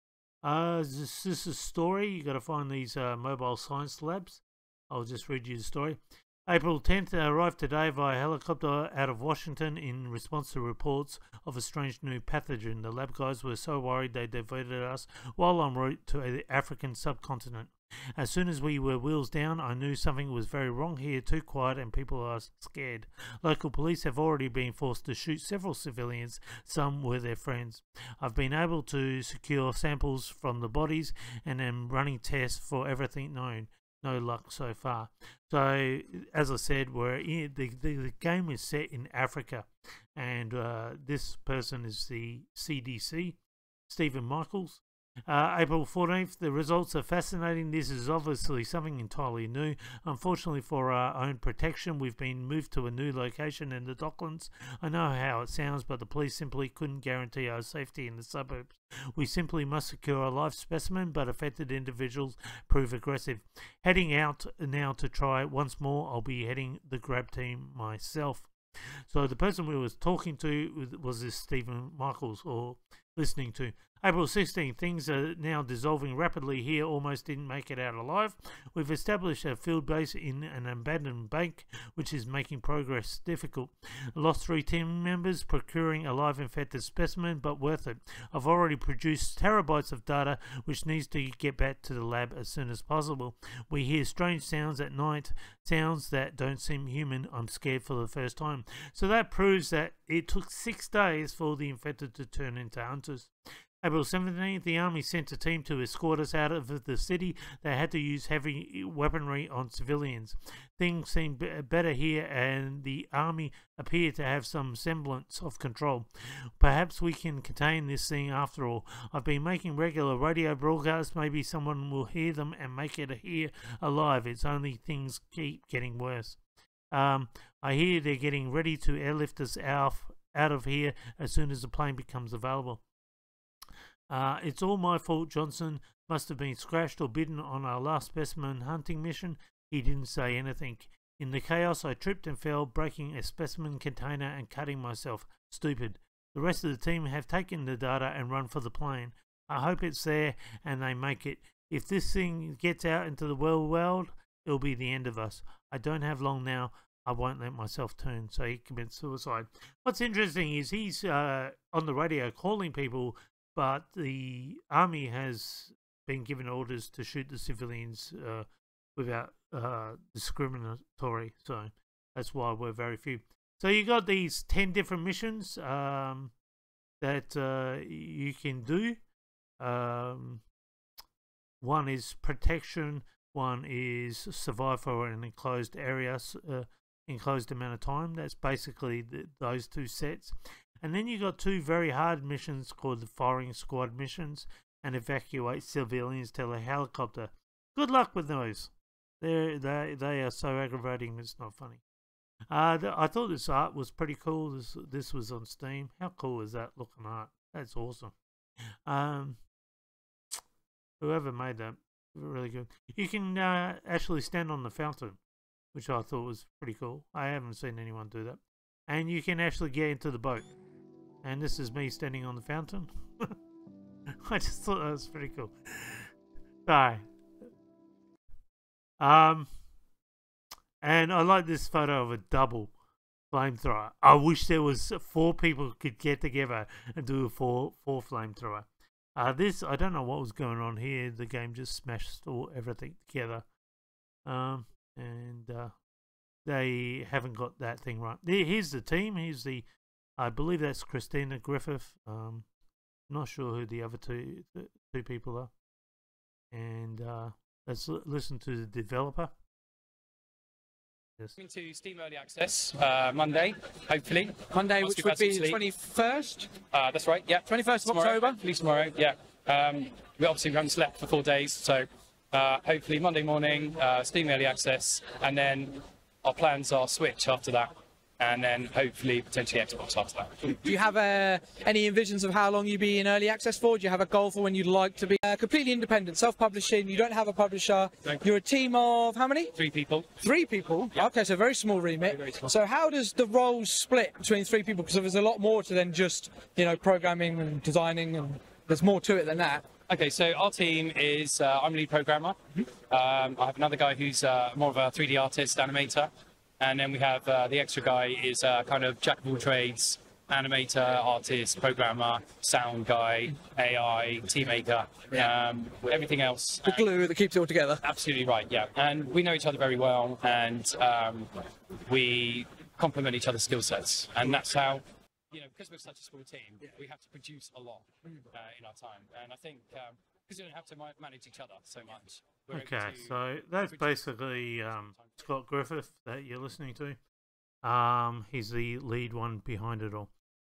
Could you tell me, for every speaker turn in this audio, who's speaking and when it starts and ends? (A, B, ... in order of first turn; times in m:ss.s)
0:00.4-1:08.5 A
1:09.1-1:43.3 A
1:43.8-2:06.4 A
2:06.9-2:12.8 A
2:14.1-2:56.3 A
2:57.0-2:59.0 A
2:59.6-3:00.4 A
3:01.6-3:21.8 A
3:22.5-3:28.2 A
3:28.9-3:29.4 A
3:31.0-3:35.2 A
3:35.7-3:40.5 A
3:41.2-3:43.3 A
3:44.2-3:46.1 A
3:46.7-3:47.1 A
3:49.0-3:49.5 A
3:50.8-3:52.7 A
3:53.3-4:03.5 A
4:04.2-4:05.8 A
4:06.4-4:09.7 A
4:10.2-4:12.5 A
4:13.1-4:15.5 A
4:16.5-4:19.3 A
4:21.4-4:25.6 B
4:24.5-4:26.5 C
4:26.7-4:40.6 B
4:27.5-4:28.4 C
4:40.5-4:49.5 C
4:49.6-4:50.2 B
4:50.2-4:59.7 C
4:52.2-4:52.5 B
4:59.9-5:16.9 B
5:16.6-5:17.8 C
5:17.8-5:33.2 B
5:32.5-5:37.0 A
5:33.7-5:35.2 B
5:37.6-5:40.1 A